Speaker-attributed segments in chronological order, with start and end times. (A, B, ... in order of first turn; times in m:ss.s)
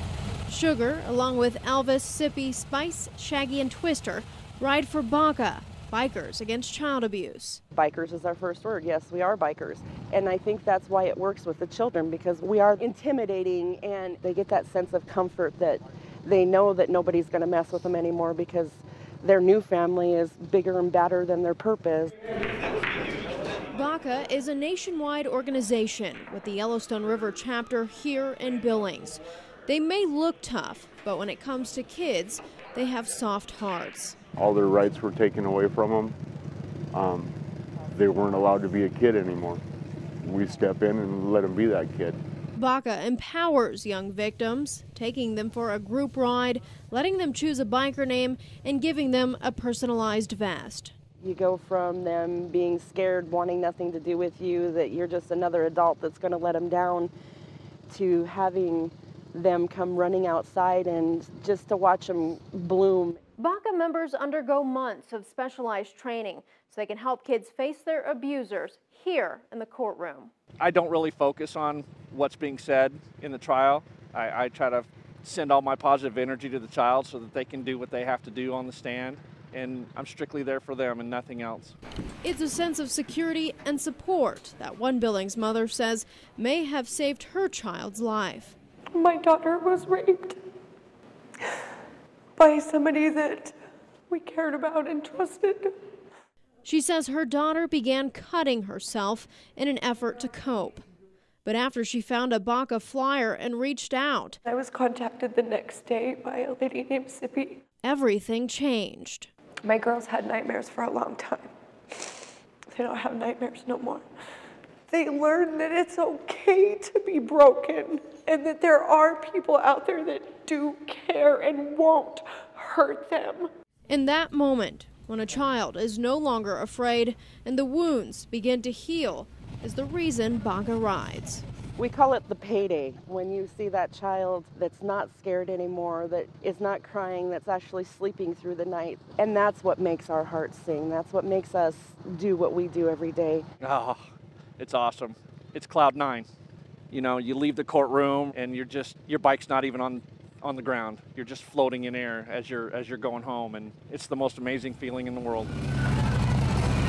0:00.5-0:07.6 A
0:07.7-0:22.2 B
0:23.7-0:34.2 A
0:34.4-0:36.2 C
0:36.9-0:37.4 C
0:37.9-0:39.6 C
0:40.2-0:42.2 C
0:42.5-0:50.9 A
0:51.2-0:57.1 B
0:57.9-1:03.2 B
1:03.4-1:10.3 A
1:10.6-1:21.7 D
1:22.2-1:28.6 A
1:28.9-1:30.4 E
1:32.4-1:33.5 E
1:34.1-1:35.7 E
1:36.6-1:40.8 A
1:41.4-1:44.4 A
1:44.4-1:47.6 E
1:47.8-1:49.3 A
1:49.6-1:52.2 E
1:52.7-1:54.0 E
1:54.9-2:03.5 E
2:03.9-2:11.4 A
2:11.8-2:23.4 B
2:23.6-2:26.3 D
2:26.9-2:35.5 D